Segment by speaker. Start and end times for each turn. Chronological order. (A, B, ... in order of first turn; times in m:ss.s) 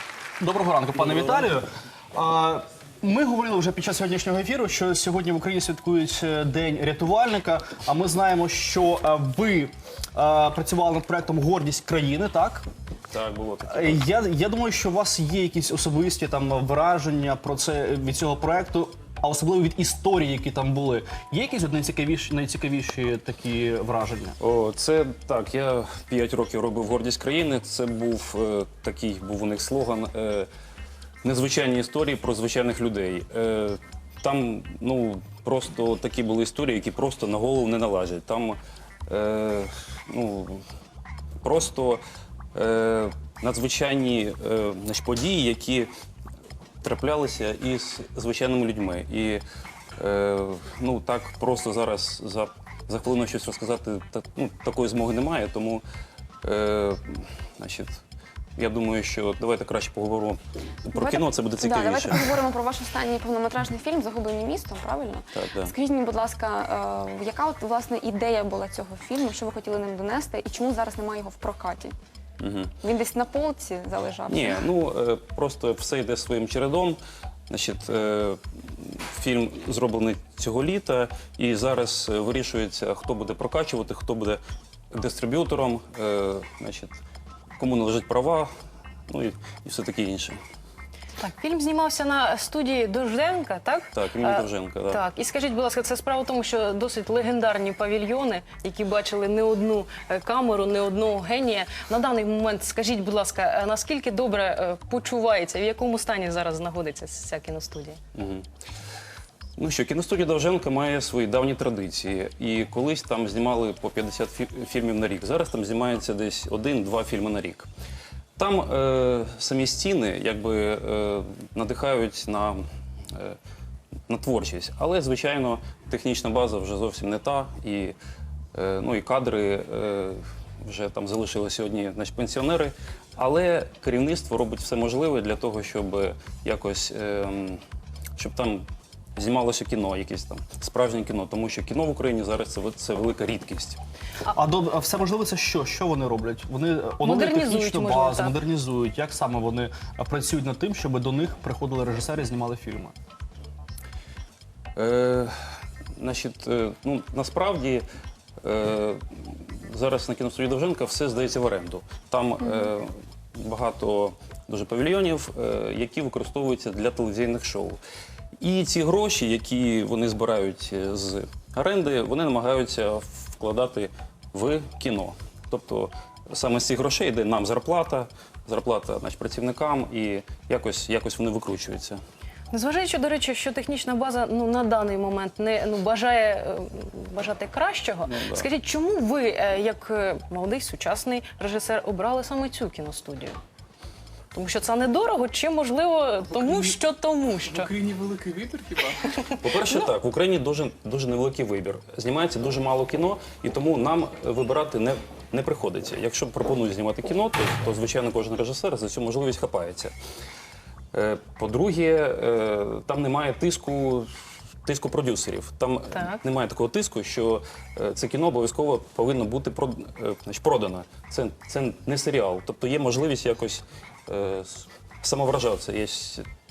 0:00.4-0:12.6 A
0:01.1-0:01.4 B
0:13.1-0:14.0 B
0:13.7-0:24.4 A
0:24.4-0:30.5 B
0:31.2-0:40.6 B
0:41.4-0:42.0 B
0:42.5-0:45.9 B
0:46.8-0:49.4 B
0:50.0-0:55.8 B
0:56.4-0:58.0 B
0:58.6-1:02.3 B
1:00.9-1:11.9 C
1:05.3-1:05.7 B
1:12.4-1:12.7 B
1:12.8-1:14.6 C
1:14.3-1:17.0 B
1:17.5-1:24.4 B
1:24.9-1:27.0 B
1:27.6-1:28.5 B
1:29.1-1:30.4 B
1:31.2-1:48.0 D
1:33.9-1:35.0 B
1:48.1-1:48.5 B
1:49.6-1:57.7 B
1:58.4-2:03.4 B
2:04.1-2:08.0 B
2:08.5-2:17.6 B
2:18.2-2:23.8 B
2:24.3-2:32.9 A
2:27.0-2:28.4 D
2:34.8-2:37.8 B
2:38.4-2:47.8 B
2:48.4-3:02.0 B
3:02.5-3:13.4 D
3:08.0-3:08.5 B
3:14.3-3:17.7 D
3:16.4-3:16.7 E
3:17.5-3:19.2 E
3:19.4-3:29.9 B
3:30.9-3:34.1 B
3:34.6-3:46.2 B
3:35.9-3:36.2 D